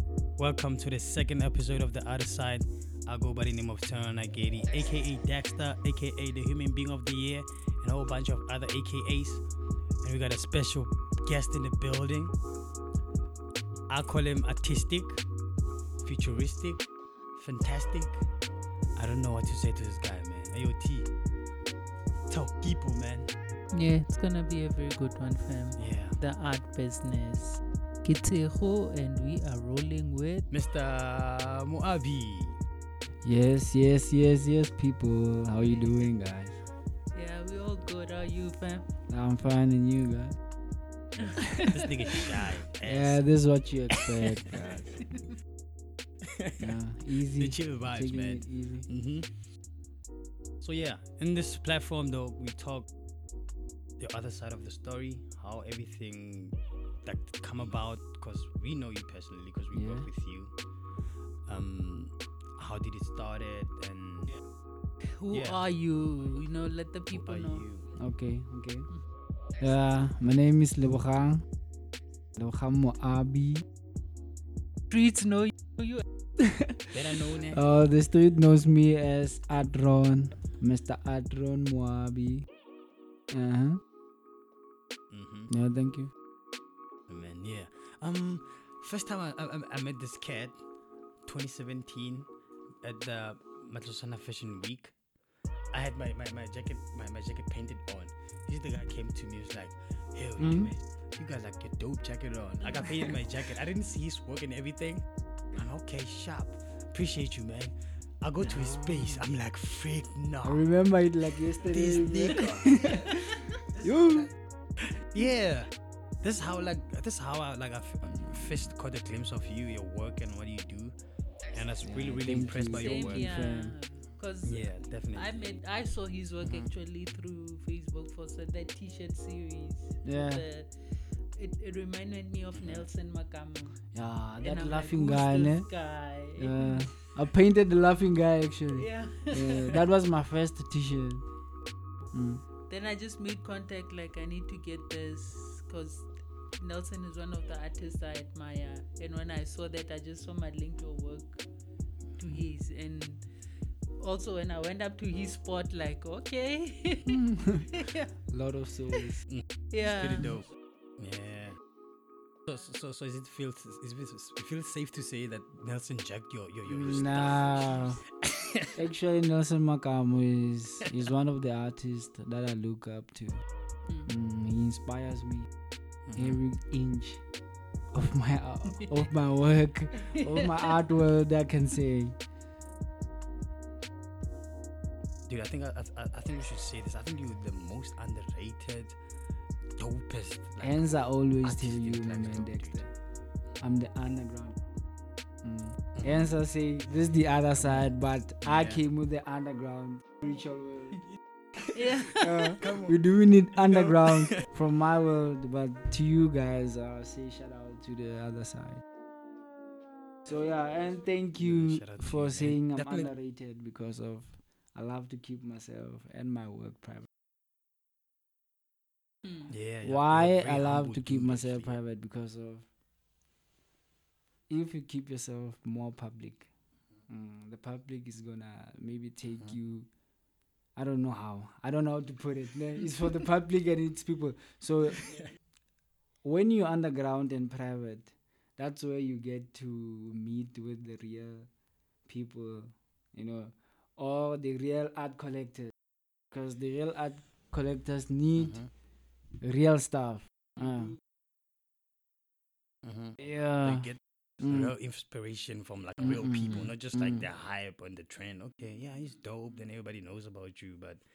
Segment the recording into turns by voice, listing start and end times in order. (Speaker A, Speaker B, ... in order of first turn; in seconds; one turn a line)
Speaker A: 0.4-9.4
Speaker A: 10.0-12.3
Speaker A: 13.9-15.2
Speaker A: 16.0-16.8
Speaker A: 17.4-18.2
Speaker A: 18.9-21.1
Speaker A: 22.3-23.3
Speaker B: 23.7-30.5
Speaker A: 25.8-26.2
Speaker A: 30.5-32.6
Speaker C: 33.2-36.6
Speaker B: 37.1-38.9
Speaker C: 39.1-40.4
Speaker B: 41.2-42.3
Speaker A: 41.5-43.2
Speaker C: 42.8-45.0
Speaker A: 43.9-44.3
Speaker B: 45.0-45.3
Speaker A: 46.2-46.8
Speaker C: 46.6-48.9
Speaker A: 47.3-49.3
Speaker A: 50.6-52.9
Speaker A: 54.0-60.5
Speaker C: 59.7-60.1
Speaker A: 61.5-64.3
Speaker B: 65.2-67.6
Speaker A: 65.3-65.6
Speaker A: 67.1-67.9
Speaker C: 68.0-68.9
Speaker C: 69.6-71.4
Speaker C: 72.3-73.6
Speaker B: 74.9-76.0
Speaker C: 76.4-82.5
Speaker A: 76.9-77.6
Speaker C: 83.3-83.8
Speaker A: 85.1-85.5
Speaker C: 85.5-86.1
Speaker A: 87.1-90.6
Speaker A: 91.2-92.3
Speaker A: 92.8-94.9
Speaker A: 95.7-110.7
Speaker C: 100.4-100.7
Speaker C: 108.4-109.3
Speaker C: 110.4-114.3
Speaker A: 111.5-113.0
Speaker A: 114.8-115.7
Speaker A: 116.2-120.9
Speaker C: 118.1-118.4
Speaker A: 121.5-123.3
Speaker C: 121.8-123.7
Speaker B: 122.7-130.7
Speaker A: 124.5-125.3
Speaker A: 126.4-126.7
Speaker C: 130.0-130.4
Speaker B: 131.3-133.8
Speaker A: 132.5-132.8
Speaker C: 133.9-135.7
Speaker B: 134.4-137.0
Speaker C: 136.4-141.2
Speaker B: 138.7-139.8
Speaker C: 142.1-142.4
Speaker B: 142.7-151.4
Speaker B: 152.2-153.2
Speaker B: 154.0-158.1
Speaker C: 157.1-159.2
Speaker A: 159.3-161.6
Speaker B: 159.7-160.3
Speaker A: 162.4-168.7
Speaker C: 166.7-168.0
Speaker C: 168.8-173.4
Speaker C: 174.1-175.5
Speaker A: 176.1-176.4
Speaker C: 176.2-177.2
Speaker C: 177.9-182.2
Speaker B: 180.0-180.7
Speaker A: 185.3-188.9
Speaker A: 189.8-192.8
Speaker C: 190.6-192.9
Speaker C: 193.6-194.6
Speaker C: 195.4-201.0
Speaker A: 198.4-198.8
Speaker B: 201.7-202.5
Speaker C: 202.1-208.8
Speaker A: 202.4-203.0
Speaker A: 203.9-204.4
Speaker C: 210.2-217.1
Speaker A: 211.4-213.1
Speaker A: 219.5-221.7
Speaker C: 219.8-222.7
Speaker C: 224.5-226.5
Speaker C: 227.1-229.9
Speaker C: 230.8-235.1
Speaker C: 236.2-241.5
Speaker C: 242.1-245.7
Speaker C: 246.3-248.6
Speaker A: 248.4-248.7
Speaker C: 249.4-251.0
Speaker A: 252.8-261.0
Speaker C: 253.2-253.9
Speaker C: 254.4-254.7
Speaker C: 256.0-257.3